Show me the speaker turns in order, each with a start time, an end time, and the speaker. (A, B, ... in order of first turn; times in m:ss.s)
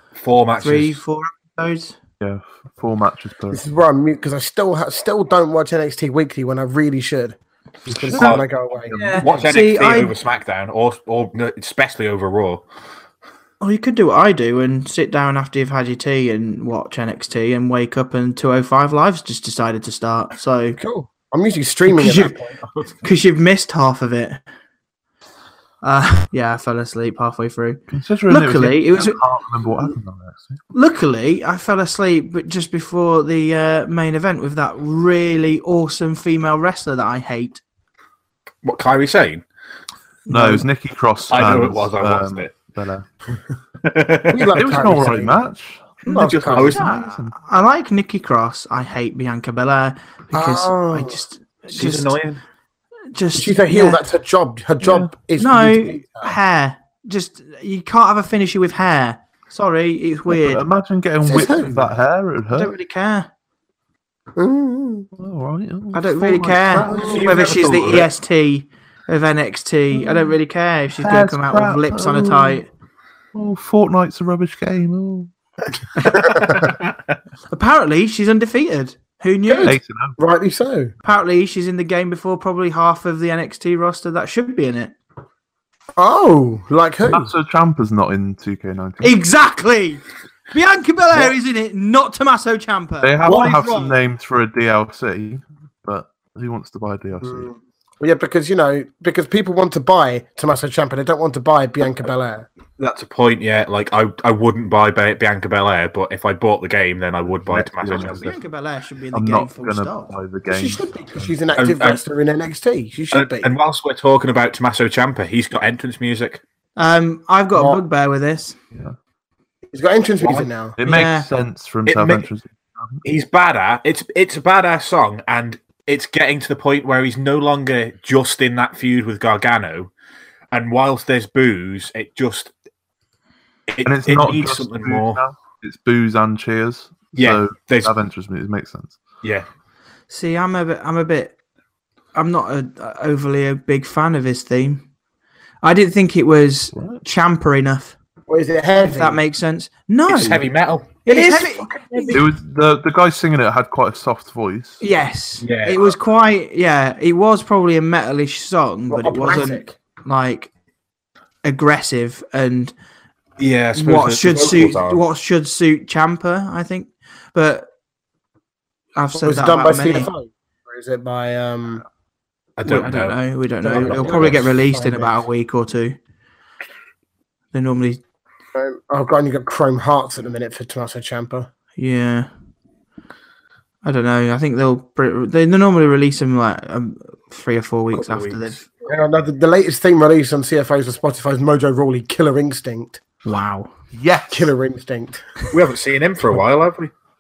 0:00.2-0:01.0 A
0:00.6-0:02.0 B
0:02.2-0:03.6 C
0:03.5-0:09.4 D
0:07.9-0:08.4 C
0:08.2-0:08.4 A
0:08.9-0:10.2 B
0:09.2-0:12.6 A
0:13.6-0:20.8 B
0:20.8-0:22.6 D
0:21.9-0:22.4 B
0:23.0-0:24.4 B
0:25.8-0:29.2 B
0:27.9-0:30.6 C
0:30.7-0:37.6 B
0:38.6-0:39.4 A
0:40.3-0:40.7 B
0:40.3-0:43.1 C
0:41.3-0:42.5 A
0:43.8-0:44.6 A
0:44.3-0:45.4 D
0:44.6-0:47.4 C
0:46.0-0:52.2 B
0:46.1-0:46.8 D
0:46.2-0:46.9 A
0:50.3-0:51.2 D
0:51.7-0:52.4 A
0:53.1-0:54.0 B
0:53.4-0:56.4 D
0:54.8-0:55.1 C
0:55.4-1:00.6 B
1:00.3-1:02.7 C
1:01.2-1:01.9 D
1:02.5-1:03.3 B
1:04.4-1:05.1 D
1:05.2-1:07.9 C
1:05.9-1:12.7 B
1:06.8-1:07.6 D
1:06.9-1:08.1 A
1:11.0-1:12.6 C
1:13.3-1:15.3 C
1:16.0-1:16.4 B
1:16.0-1:16.6 D
1:16.5-1:16.9 A
1:17.5-1:19.8 B
1:19.5-1:20.9 D
1:19.6-1:20.2 C
1:21.0-1:25.0 B
1:26.0-1:27.3 D
1:27.1-1:29.1 C
1:29.0-1:33.9 B
1:33.0-1:37.5 C
1:33.3-1:33.6 D
1:37.2-1:42.5 D
1:42.8-1:48.3 A
1:47.5-1:48.4 C
1:48.0-1:50.1 B
1:49.1-1:51.3 C
1:50.5-1:53.5 D
1:51.6-1:52.0 A
1:53.1-1:56.4 A
1:56.8-1:58.6 B
1:57.5-1:57.8 D
1:59.7-2:00.8 D
2:00.8-2:03.0 C
2:00.8-2:01.3 B
2:01.9-2:02.3 A
2:03.0-2:09.9 A
2:10.5-2:12.5 A
2:13.7-2:15.2 A
2:13.8-2:19.0 C
2:17.2-2:17.9 A
2:20.1-2:21.4 B
2:22.2-2:24.8 B
2:25.6-2:28.0 B
2:26.7-2:27.0 C
2:28.3-2:29.2 D
2:28.8-2:30.4 B
2:30.1-2:31.0 A
2:31.0-2:32.2 B
2:31.1-2:32.2 D
2:32.1-2:34.8 C
2:34.8-2:40.5 B
2:35.4-2:36.0 A
2:38.9-2:39.6 D
2:41.4-2:42.7 B
2:43.4-2:45.0 A
2:43.8-2:47.7 B
2:49.0-2:50.1 B
2:49.2-2:51.8 D
2:52.6-2:53.2 A
2:52.6-2:56.0 B
2:53.6-2:55.2 D
2:53.7-2:54.4 A
2:57.5-2:58.0 B
2:58.6-3:01.5 D
3:01.8-3:02.3 B
3:03.8-3:08.7 B
3:07.9-3:08.4 A
3:08.8-3:13.0 D
3:13.2-3:13.7 B
3:13.9-3:14.5 C
3:14.3-3:15.3 D
3:15.5-3:16.9 A